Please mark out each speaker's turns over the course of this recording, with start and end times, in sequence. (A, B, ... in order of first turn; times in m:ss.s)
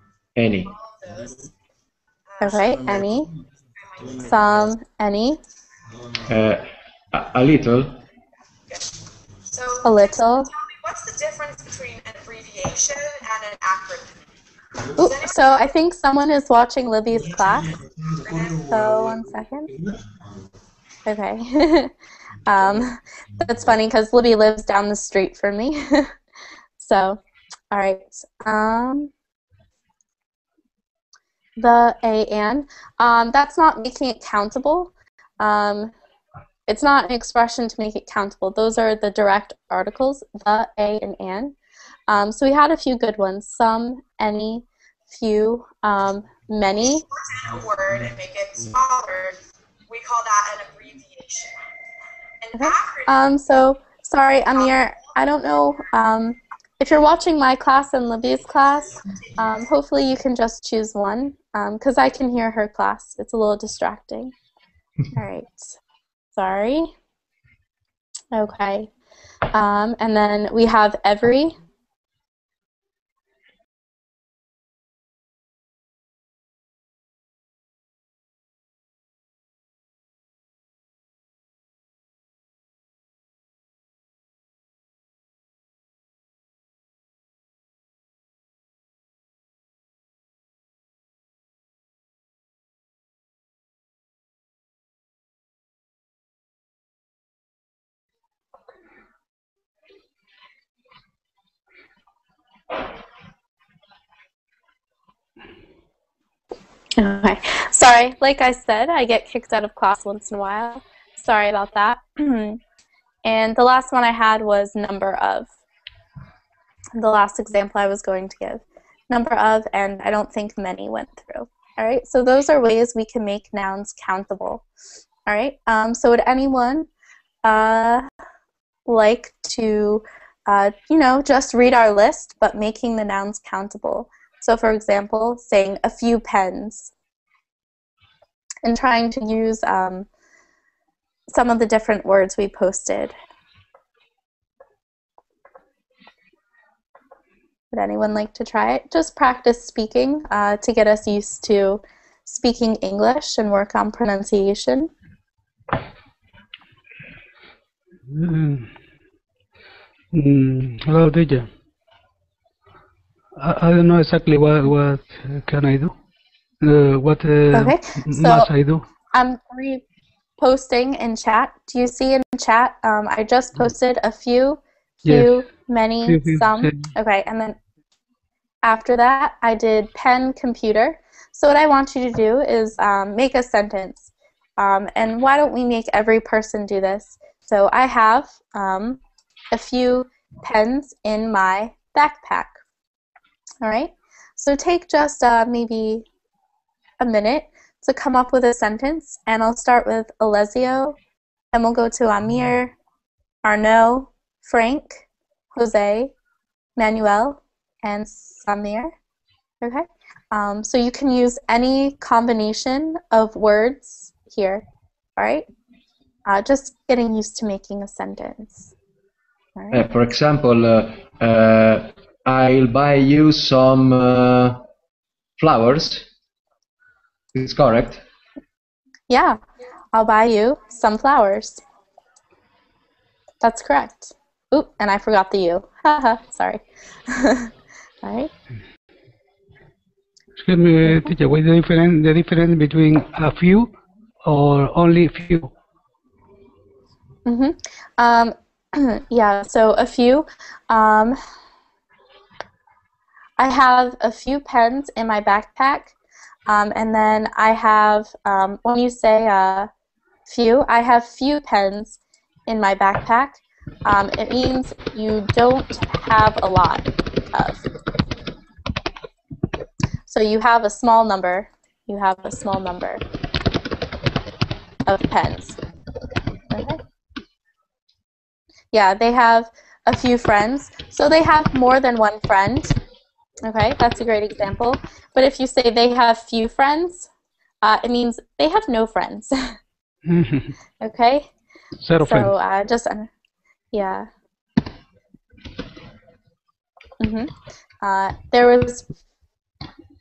0:00.4-0:00.8 A
0:00.6-0:01.5 B
0:02.3-0:03.0 B
0:02.4-0:03.3 C
0:03.8-0:04.4 B
0:04.2-0:05.4 C
0:06.3-0:08.0 A
0:09.5-0:14.2 B
0:09.8-0:10.5 C
0:15.0-0:15.6 B
0:15.0-0:17.7 C
0:18.2-0:18.7 B
0:18.7-0:19.7 C
0:21.1-0:21.9 C
0:22.5-0:26.1 C
0:26.8-0:29.1 C
0:31.6-0:35.9 C
0:36.7-0:41.5 C
0:42.1-0:47.0 C
0:47.1-0:51.5 B
0:52.4-0:53.2 B
0:52.6-1:04.3 C
0:54.5-0:55.1 B
1:05.1-1:05.8 C
1:06.3-1:06.9 C
1:08.3-1:08.9 C
1:09.5-1:11.6 C
1:47.0-1:52.6 C
1:53.2-1:55.5 C
1:57.0-2:04.6 C
2:05.3-2:06.9 C
2:07.4-2:08.1 C
2:08.9-2:16.9 C
2:18.6-2:20.1 C
2:21.3-2:23.1 C
2:27.7-2:34.9 C
2:38.1-2:38.7 D
2:40.1-2:41.5 D
2:43.4-2:45.9 D
2:46.6-2:48.8 D
2:47.5-2:48.5 C
2:49.1-2:49.8 C
2:50.4-2:57.6 C
2:55.0-2:55.4 D
2:56.0-2:56.9 D
2:58.6-3:09.0 C
3:09.5-3:12.6 C
3:13.6-3:16.0 C
3:17.0-3:21.0 C
3:21.5-3:22.7 C
3:23.4-3:26.1 C
3:26.8-3:28.9 C
3:29.6-3:34.6 C
3:35.2-3:35.5 C
3:36.3-3:38.7 C
3:39.6-3:39.8 C
3:39.7-3:44.6 A
3:45.4-3:46.1 A
3:47.3-3:48.0 A
3:49.1-3:49.4 C
3:49.9-3:51.6 C
3:53.4-3:57.5 C
3:58.0-3:58.3 C
4:00.4-4:03.7 D
4:00.8-4:01.1 C
4:04.2-4:05.5 D
4:07.3-4:11.2 C
4:13.4-4:15.9 C
4:16.5-4:19.7 C
4:20.3-4:27.6 C
4:30.1-4:33.0 C
4:34.9-4:35.6 C
4:36.5-4:36.8 C
4:38.7-4:42.8 C
4:43.5-4:47.1 C
4:47.6-4:49.5 C
4:50.1-4:50.6 D
4:50.8-4:51.3 C
4:51.8-4:52.3 D
4:52.0-4:53.1 C
4:53.7-4:54.1 C
4:57.0-4:58.9 C